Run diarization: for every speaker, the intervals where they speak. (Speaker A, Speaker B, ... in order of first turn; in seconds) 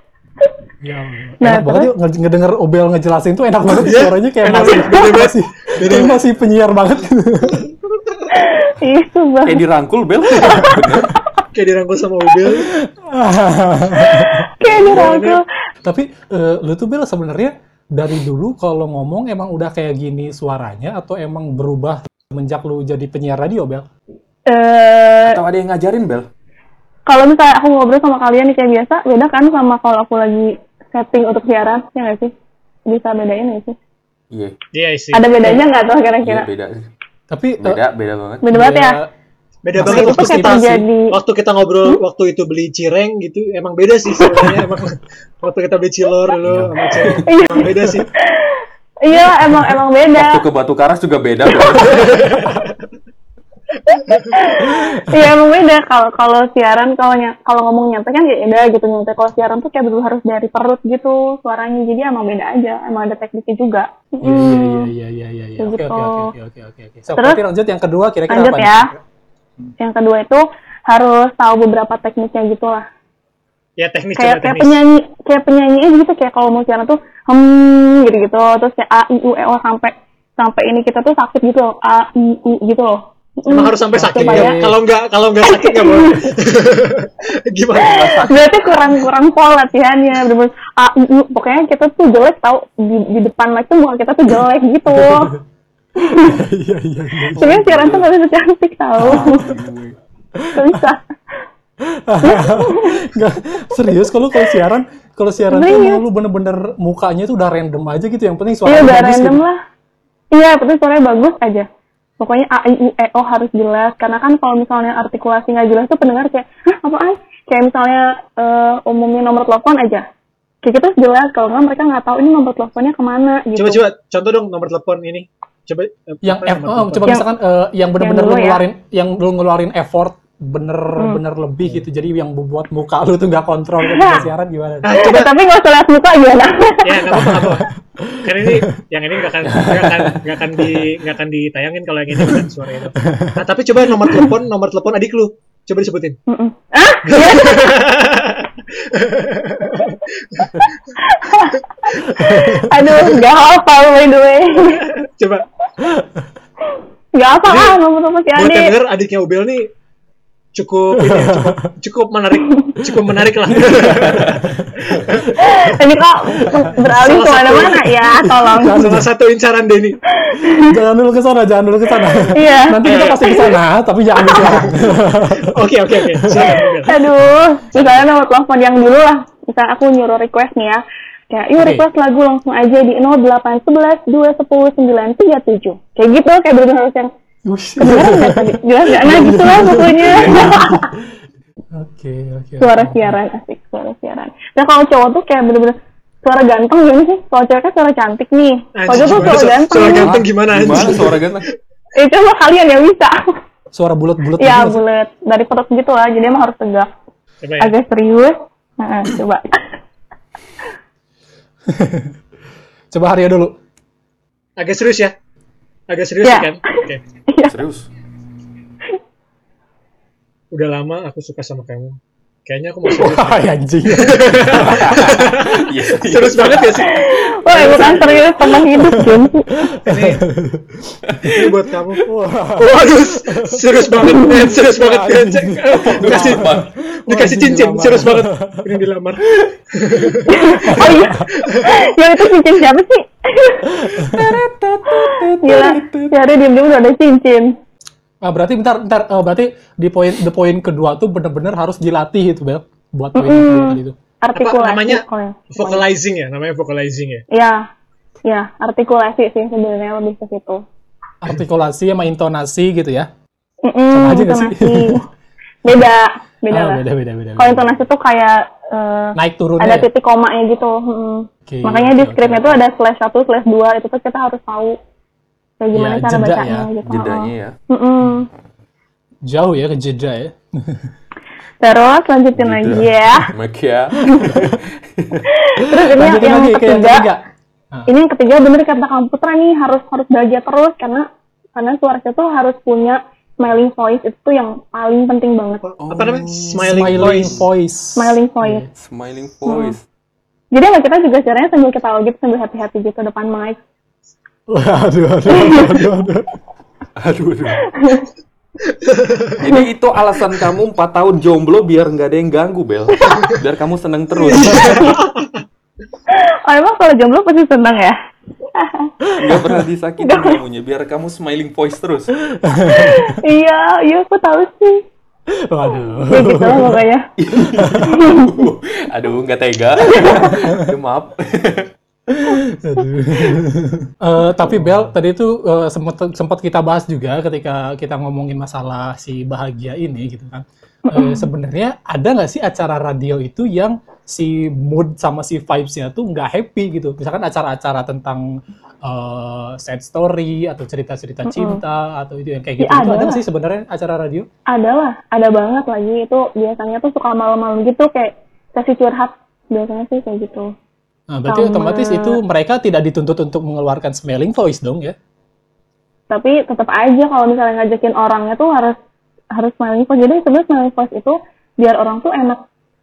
Speaker A: 0.8-7.6, 12.4-14.5, 15.8-23.9, 37.3-37.8, 38.5-39.1, 39.7-40.8, 46.4-47.1, 54.5-55.4, 64.2-69.0, 83.9-84.8, 94.9-95.4, 96.0-97.5, 99.0-99.4, 100.3-100.8, 101.8-109.4, 126.2-135.0, 137.1-138.7, 143.0-143.4, 152.1-153.0, 155.8-156.3, 160.9-161.6, 163.1-165.6, 168.2-169.1, 170.6-176.6, 181.6-181.8, 187.4-190.9, 191.7-193.2, 203.7-204.8, 211.7-212.1, 212.9-213.5, 222.9-225.1, 228.8-231.0, 232.0-238.8, 240.7-241.3, 243.8-244.3, 248.2-253.9, 261.2-263.1, 263.9-265.0, 266.5-267.7, 269.1-269.9, 271.5-272.6, 275.7-276.7, 279.2-280.9, 285.7-287.9, 296.4-298.7, 304.5-306.3, 319.1-319.5, 322.3-323.2, 325.3-326.8, 327.4-327.9, 330.4-330.6, 332.1-348.3, 348.8-354.3, 361.1-364.9
Speaker B: 1.4-1.9, 8.3-9.6, 10.4-10.8, 14.0-15.4, 24.5-25.4, 27.1-32.3, 32.9-33.8, 35.1-36.5, 38.4-39.0, 39.8-41.1, 47.2-50.4, 51.6-52.0, 53.9-64.9, 65.6-66.3, 68.3-68.9, 69.8-72.8, 74.2-84.6, 85.5-86.2, 87.9-95.3, 96.0-96.3, 97.3-99.5, 100.5-101.0, 102.2-103.0, 105.5-106.0, 108.7-109.6, 110.3-111.7, 112.2-120.0, 120.6-123.8, 128.0-128.6, 133.8-134.2, 134.9-137.1, 146.3-147.8, 151.0-154.9, 157.1-158.7, 165.3-168.9, 170.2-170.7, 172.3-173.6, 176.8-187.1, 187.8-190.9, 192.6-200.1, 201.9-203.2, 204.4-206.9, 207.6-209.6, 216.2-216.5, 217.3-217.5, 226.8-229.6, 234.1-234.4, 240.3-243.8, 245.4-247.5, 253.1-255.8, 257.3-257.7, 258.2-260.6, 263.6-265.0, 265.6-266.8, 267.4-274.8, 275.6-278.3, 281.6-283.3, 285.3-287.1, 287.9-295.6, 297.9-298.6, 299.5-299.7, 300.5-303.6, 305.3-305.8, 307.7-308.1, 316.1-317.9, 318.5-318.9, 320.0-320.4, 322.6-324.8, 326.1-327.1, 327.9-328.3, 329.9-330.3, 340.9-341.2, 351.2-351.6, 352.6-353.2, 354.5-360.5, 361.3-362.2, 366.1-368.8, 369.3-372.4
Speaker C: 3.7-6.2, 11.5-12.7, 14.6-15.4, 34.7-35.6, 39.6-48.1, 52.0-52.6, 73.8-74.8, 83.5-88.3, 123.5-127.1, 134.8-135.3, 136.8-137.7, 138.2-146.2, 147.1-150.7, 155.0-155.5, 157.4-157.8, 158.3-159.7, 160.5-165.3, 166.8-167.9, 168.7-170.0, 174.4-177.1, 177.8-178.0, 198.8-201.3, 207.4-207.7, 214.6-215.1, 215.9-217.0, 220.5-228.3, 229.8-230.2, 231.2-241.7, 254.3-257.2, 295.7-297.4, 308.8-309.3, 314.2-315.4
Speaker D: 9.4-11.2, 25.2-26.3, 36.2-36.9, 37.6-38.4, 50.1-52.0, 87.8-88.5, 97.3-98.0, 99.0-100.0, 139.4-140.2, 163.9-164.3, 199.8-201.5, 217.5-217.9, 224.5-226.9, 227.6-228.2, 235.8-236.7, 244.0-246.2, 276.8-277.5, 282.4-285.3, 295.8-297.5, 298.7-299.8, 307.0-307.6, 309.4-315.0, 319.2-322.1, 327.2-331.7